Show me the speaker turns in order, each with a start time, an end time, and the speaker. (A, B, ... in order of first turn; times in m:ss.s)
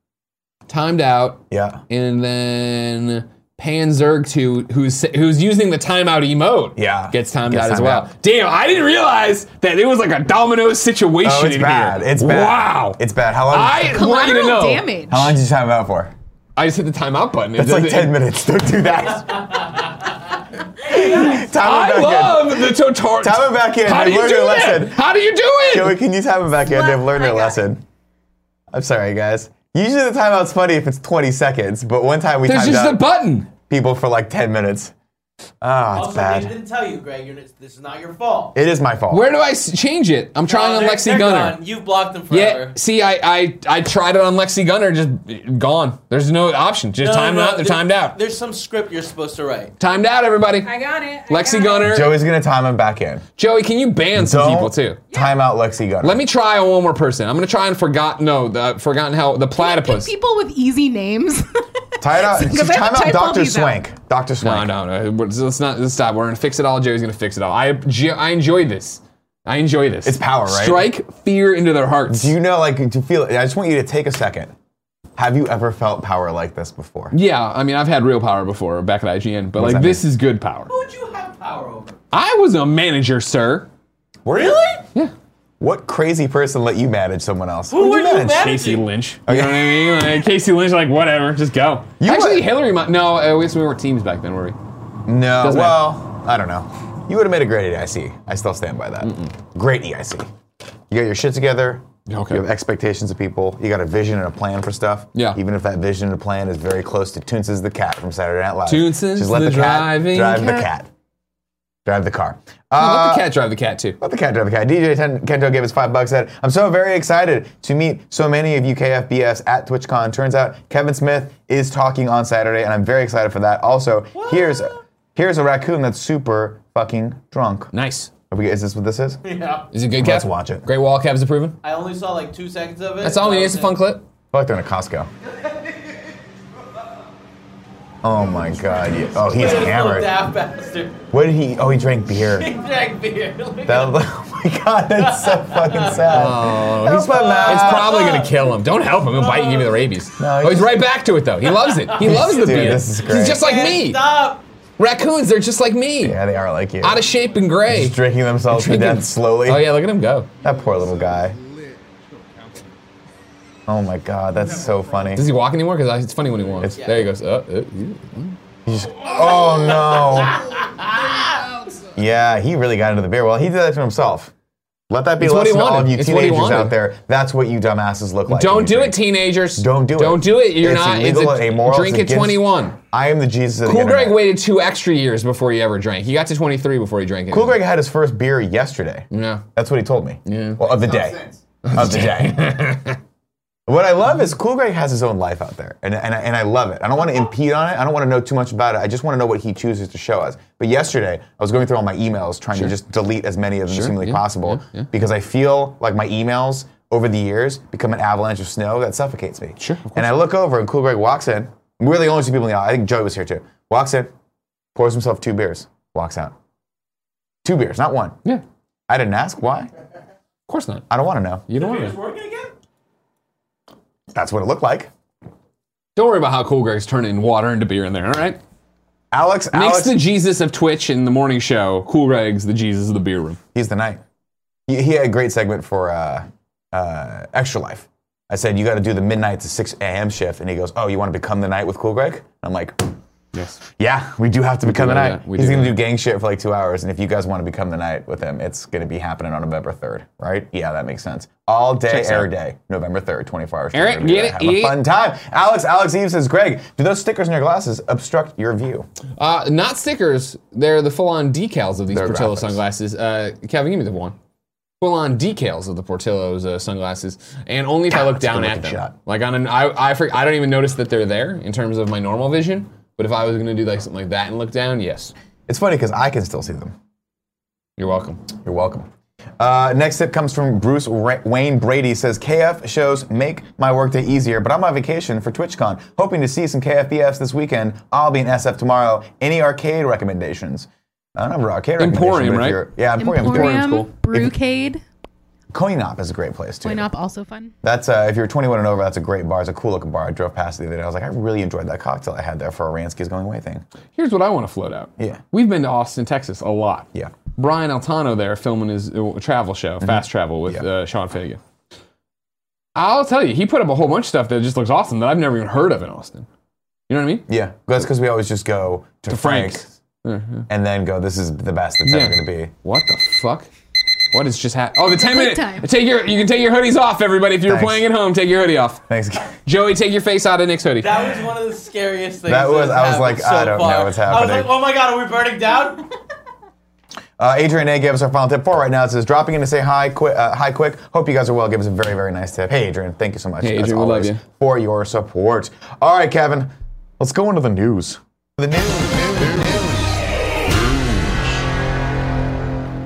0:00.7-0:14.9 A
0:01.5-0:01.8 B
0:06.8-0:08.1 B
0:11.2-0:14.1 B
0:13.9-0:15.3 C
0:15.1-0:16.1 B
0:16.6-0:18.2 A
0:17.6-0:19.8 B
0:20.8-0:25.0 B
0:20.9-0:26.0 A
0:25.7-0:27.8 B
0:26.7-0:27.6 C
0:28.7-0:34.9 B
0:32.4-0:33.5 A
0:35.6-0:36.6 B
0:35.9-0:38.5 D
0:38.5-0:39.3 B
0:39.1-0:41.6 A
0:40.5-0:42.8 D
0:42.3-0:48.2 A
0:47.0-0:49.7 D
0:49.8-0:50.7 A
0:50.6-0:52.0 C
0:51.3-0:52.2 A
0:51.8-0:53.2 B
0:53.4-0:55.0 A
0:54.1-0:56.2 B
0:56.0-1:00.1 A
0:59.6-1:03.8 C
1:02.0-1:04.7 B
1:04.4-1:12.3 A
1:10.0-1:10.9 B
1:12.1-1:14.5 B
1:15.2-1:17.2 B
1:17.1-1:20.7 A
1:19.6-1:20.0 B
1:20.7-1:22.0 D
1:22.1-1:23.7 A
1:24.3-1:24.6 B
1:24.3-1:24.8 D
1:25.6-1:28.5 B
1:27.7-1:28.8 D
1:28.2-1:34.6 A
1:29.3-1:30.1 B
1:32.0-1:32.5 B
1:35.1-1:40.3 B
1:35.4-1:35.9 A
1:39.0-1:39.3 A
1:40.9-1:50.9 B
1:42.1-1:42.5 A
1:48.7-1:50.7 A
1:51.9-1:53.3 B
1:52.8-1:54.0 A
1:54.0-2:07.7 B
2:04.1-2:04.8 D
2:07.7-2:08.1 A
2:08.3-2:09.2 B
2:09.2-2:09.7 D
2:09.7-2:11.6 A
2:10.0-2:10.7 B
2:11.6-2:13.8 D
2:13.0-2:14.0 A
2:14.3-2:15.1 B
2:18.0-2:20.1 B
2:19.2-2:21.0 D
2:21.1-2:22.5 B
2:22.2-2:24.0 D
2:23.7-2:28.1 B
2:25.0-2:28.5 D
2:26.1-2:34.0 A
2:29.1-2:29.9 D
2:30.2-2:30.8 B
2:31.4-2:34.4 D
2:32.0-2:33.4 B
2:34.8-2:36.2 A
2:36.0-2:37.0 B
2:36.8-2:40.3 A
2:37.7-2:39.8 B
2:40.4-2:41.4 B
2:43.7-2:45.3 B
2:45.2-2:48.4 A
2:46.6-2:46.9 B
2:46.8-2:47.1 D
2:48.7-2:50.4 B
2:49.5-2:51.4 D
2:51.9-2:54.3 B
2:54.9-3:04.3 B
2:55.2-2:56.8 A
2:58.3-3:02.8 A
3:03.6-3:07.6 A
3:07.3-3:12.8 B
3:09.1-3:09.4 A
3:10.3-3:10.7 A
3:11.6-3:13.0 A
3:13.7-3:34.1 B
3:23.7-3:24.9 A
3:29.6-3:30.2 A
3:34.8-3:36.3 B
3:37.4-3:38.2 B
3:38.9-3:39.7 B
3:40.5-3:40.9 A
3:40.9-3:41.5 B
3:41.5-3:42.0 A
3:41.5-3:42.5 D
3:44.1-3:44.9 B
3:46.0-3:48.4 A
3:49.1-3:50.0 B
3:49.5-3:53.4 A
3:53.5-3:54.0 B
3:54.7-4:02.9 B
4:03.3-4:03.6 A
4:03.8-4:18.9 B
4:04.6-4:05.8 A
4:11.9-4:12.3 A
4:13.7-4:14.8 A
4:19.2-4:24.2 A
4:21.9-4:22.6 B
4:24.8-4:35.1 A
4:27.9-4:29.0 B
4:35.5-4:36.8 B
4:37.8-4:38.2 A
4:38.4-4:38.9 B
4:39.4-4:54.3 B
4:51.8-4:52.6 A
4:53.0-4:54.8 C
4:53.2-4:53.9 A
4:55.5-4:56.9 B
4:56.6-4:57.5 C
4:57.6-5:03.6 B
5:04.0-5:11.4 A
5:05.0-5:05.2 B
5:09.8-5:10.6 B
5:12.8-5:16.3 A
5:16.9-5:17.3 A
5:17.3-5:19.8 B
5:19.1-5:20.5 A
5:20.5-5:22.5 B
5:21.8-5:23.5 A
5:24.1-5:28.8 A
5:24.8-5:25.7 C
5:27.4-5:27.9 B
5:28.9-5:29.3 B
5:29.4-5:30.9 A
5:30.8-5:35.9 D
5:32.3-5:34.5 B
5:37.2-5:49.9 B
5:43.4-5:44.2 A